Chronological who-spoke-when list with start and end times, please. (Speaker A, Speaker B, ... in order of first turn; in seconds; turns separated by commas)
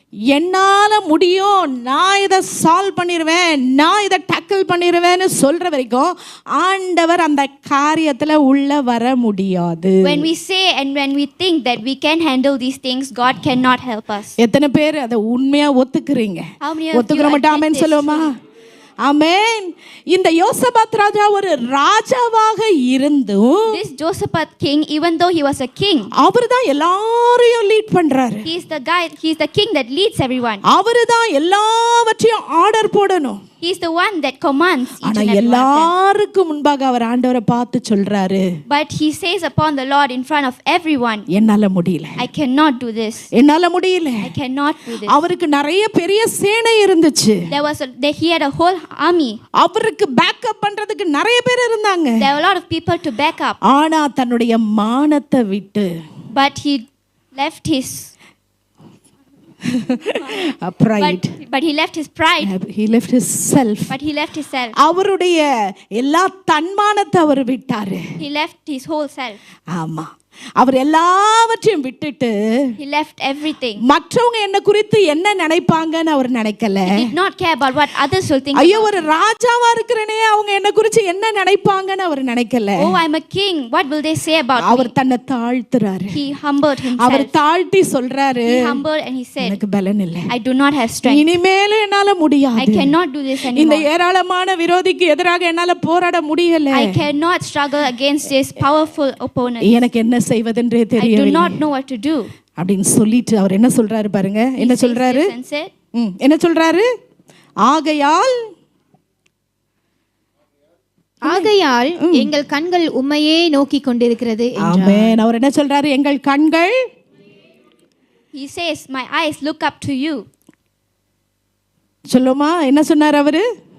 Speaker A: 0.3-10.2, Speaker B: 10.0-14.4, Speaker A: 14.4-18.3, Speaker B: 16.6-18.3, Speaker A: 19.0-23.8, Speaker B: 23.7-26.1, Speaker A: 26.2-28.5, Speaker B: 28.4-30.6, Speaker A: 30.6-33.4, Speaker B: 33.6-35.9, Speaker A: 35.0-38.5, Speaker B: 38.7-41.2, Speaker A: 41.3-42.2, Speaker B: 42.2-43.3, Speaker A: 43.3-44.3, Speaker B: 44.2-45.2, Speaker A: 45.0-47.5, Speaker B: 47.5-49.4, Speaker A: 49.6-52.2, Speaker B: 52.2-53.6, Speaker A: 53.7-55.9, Speaker B: 56.3-58.1, Speaker A: 59.7-61.3, Speaker B: 61.0-62.5, Speaker A: 62.4-64.0, Speaker B: 63.9-64.8, Speaker A: 64.8-68.0, Speaker B: 68.2-69.4, Speaker A: 69.7-72.4, Speaker B: 72.8-73.8, Speaker A: 73.8-77.1, Speaker B: 76.9-79.1, Speaker A: 78.5-82.9, Speaker B: 82.8-84.9, Speaker A: 84.6-86.2, Speaker B: 86.1-87.3, Speaker A: 87.0-88.8, Speaker B: 88.5-89.6, Speaker A: 89.4-90.3, Speaker B: 90.3-91.3, Speaker A: 91.1-92.9, Speaker B: 92.6-93.9, Speaker A: 93.5-97.0, Speaker B: 96.7-99.9, Speaker A: 99.6-101.6, Speaker B: 101.0-102.3, Speaker A: 102.6-105.3, Speaker B: 104.6-105.7, Speaker A: 106.0-106.9, Speaker A: 107.7-108.4, Speaker A: 111.2-112.3, Speaker C: 111.2-115.2, Speaker A: 114.6-116.8, Speaker B: 118.3-120.3, Speaker A: 122.1-123.4